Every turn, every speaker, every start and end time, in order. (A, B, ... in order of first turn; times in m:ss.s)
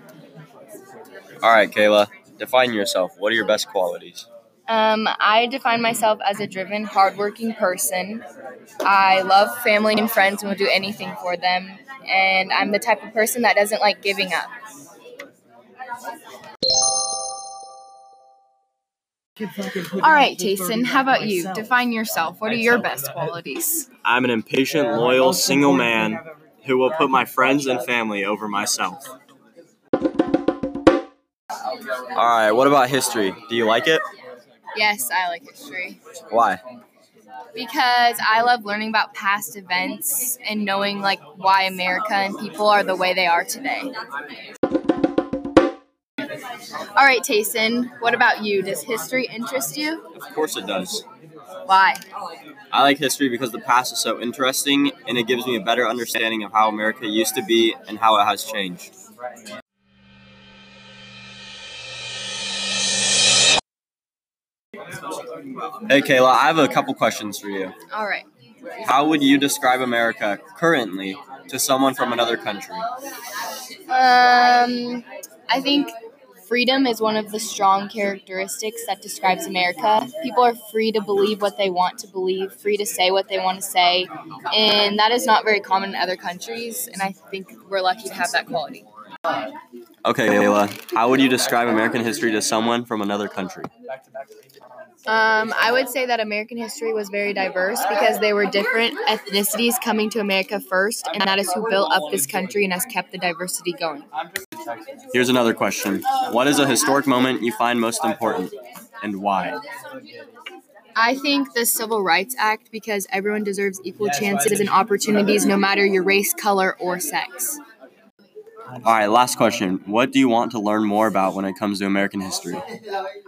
0:01.4-0:04.3 A
0:04.7-0:08.2 B
0:08.8-0:14.5 B
0:19.7-0:23.9 B
0:24.0-0:29.1 A
0:32.1-0:34.0 A
0:34.8-0:36.0 B
0:36.3-0:36.6 A
0:37.6-0:43.9 B
0:46.9-0:50.1 B
0:50.1-0:51.0 A
0:51.7-0:52.0 B
0:52.7-0:58.9 A
1:05.9-1:07.7 A
1:07.9-1:08.3 B
1:08.8-1:12.8 A
1:13.9-1:15.9 B
1:16.4-1:28.9 B
1:30.0-1:33.7 A
1:35.1-1:44.1 B
1:45.1-1:49.6 A
1:51.0-1:57.6 B
1:58.8-2:02.6 A